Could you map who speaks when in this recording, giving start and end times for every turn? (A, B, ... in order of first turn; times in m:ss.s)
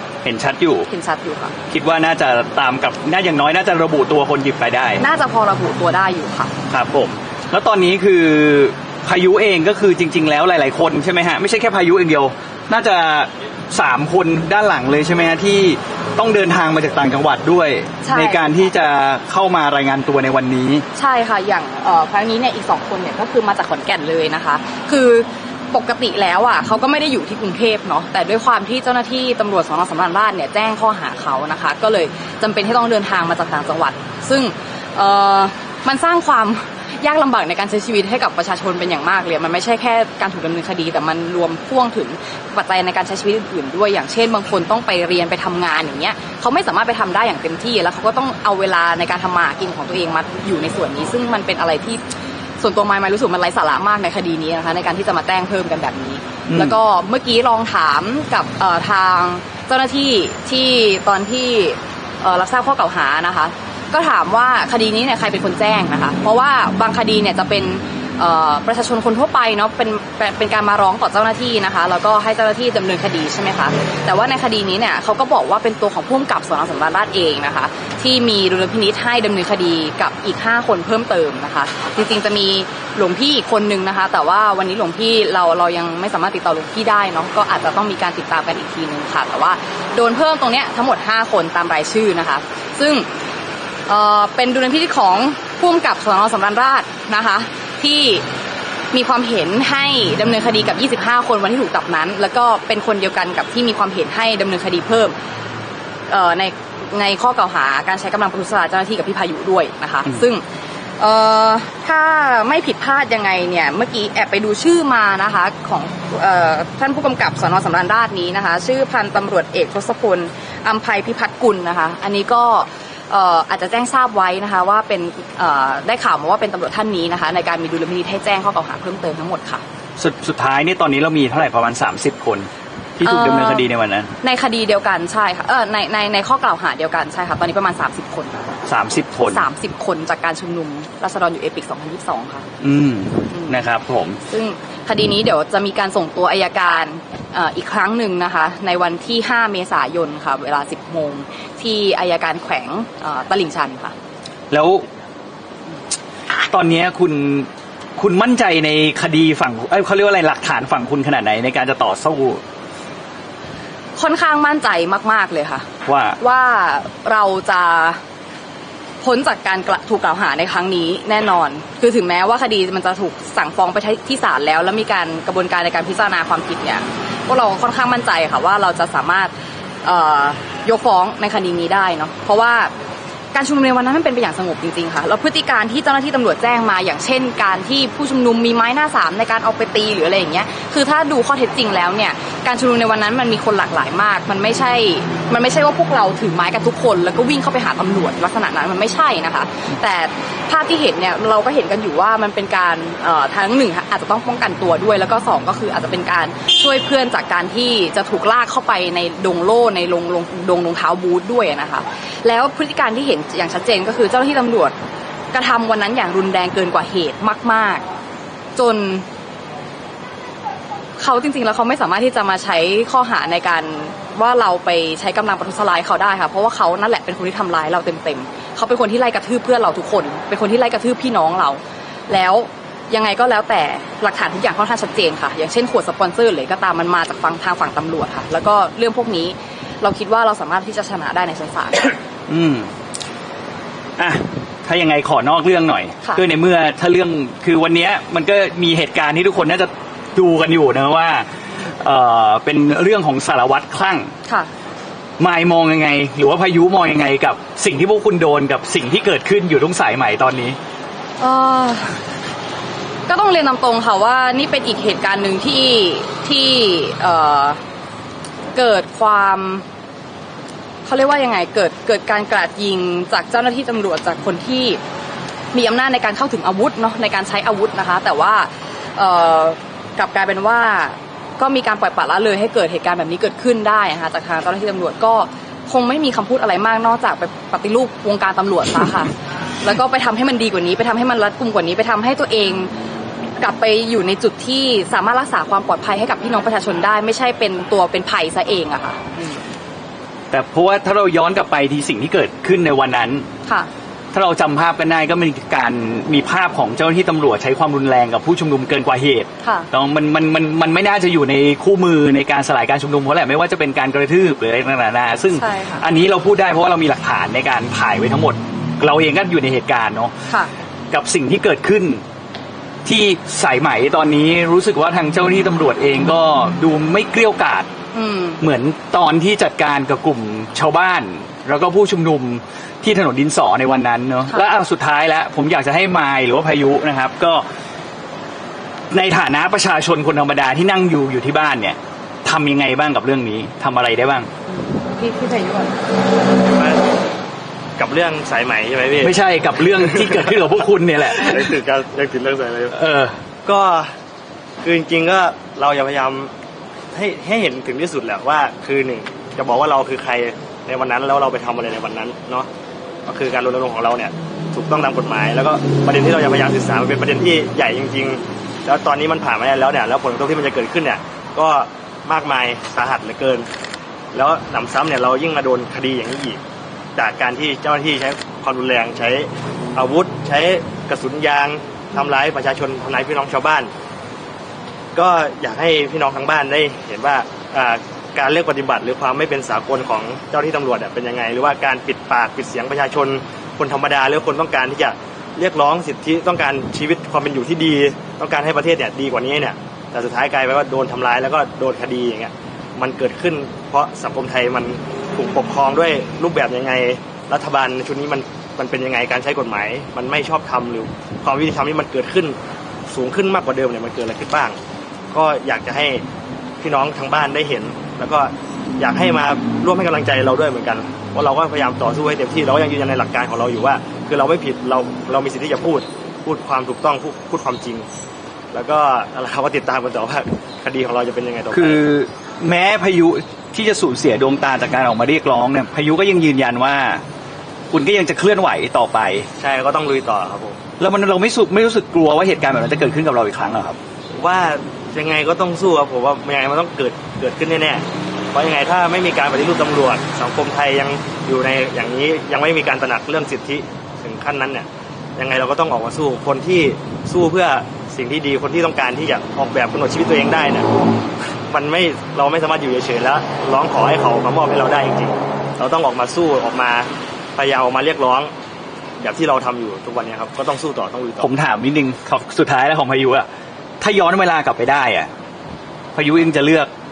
0:00.2-0:00.9 A
0:00.9-0:01.6 B
0:01.7-0:05.0 A
0:05.0-0:06.5 B
0:06.7-0:20.8 A
0:18.0-0:18.4 B
0:20.9-0:52.0 B
0:52.6-1:33.1 B
0:56.5-0:56.8 A
1:33.9-1:38.2 B
1:38.9-1:45.1 B
1:46.1-1:50.4 B
1:51.0-2:09.6 B
2:10.0-2:14.1 A
2:13.0-2:13.7 B
2:14.2-2:18.6 B
2:18.6-2:19.4 A
2:19.2-2:22.5 B
2:22.6-2:24.2 A
2:23.3-2:23.6 B
2:24.2-2:33.9 B
2:34.5-2:34.8 A
2:36.5-2:42.4 A
2:44.0-2:45.7 B
2:45.8-2:46.2 A
2:46.2-2:48.0 B
2:49.0-2:59.3 B
2:59.8-3:02.7 B
3:03.3-3:34.7 B
3:35.3-3:37.8 B
3:38.6-3:39.0 B
3:41.0-4:01.9 B
4:02.3-4:02.7 A
4:04.0-4:14.1 A
4:15.2-4:20.6 A
4:21.2-4:22.0 B
4:23.1-4:27.6 B
4:28.5-4:29.6 B
4:30.8-4:34.8 B
4:35.5-4:52.7 B
4:53.4-4:59.4 B
5:00.3-5:03.3 A
5:04.1-5:20.1 A
5:09.4-5:09.7 B
5:15.3-5:15.8 B
5:20.9-5:22.0 A
5:22.8-5:27.7 A
5:27.9-5:28.4 B
5:28.4-5:37.4 A
5:38.9-5:44.3 A
5:44.5-5:45.8 B
5:46.4-5:46.9 C
5:47.8-5:49.1 C
5:49.0-5:51.5 A
5:49.7-5:50.3 C
5:51.1-5:52.8 C
5:52.7-5:53.2 A
5:53.4-5:53.9 C
5:54.6-5:56.3 C
5:56.9-6:02.5 C
6:03.0-6:13.5 C
6:14.1-6:16.4 C
6:17.0-6:23.7 C
6:24.9-6:54.6 C
6:55.1-6:56.0 C
6:56.6-7:07.9 C
7:08.5-7:11.8 C
7:11.5-7:17.0 A
7:17.7-7:19.3 A
7:19.4-7:20.6 C
7:20.8-7:23.8 A
7:24.1-7:40.7 C
7:41.5-7:48.3 C
7:49.0-7:51.3 C
7:51.2-7:53.3 A
7:53.8-7:55.1 A
7:55.9-7:56.7 A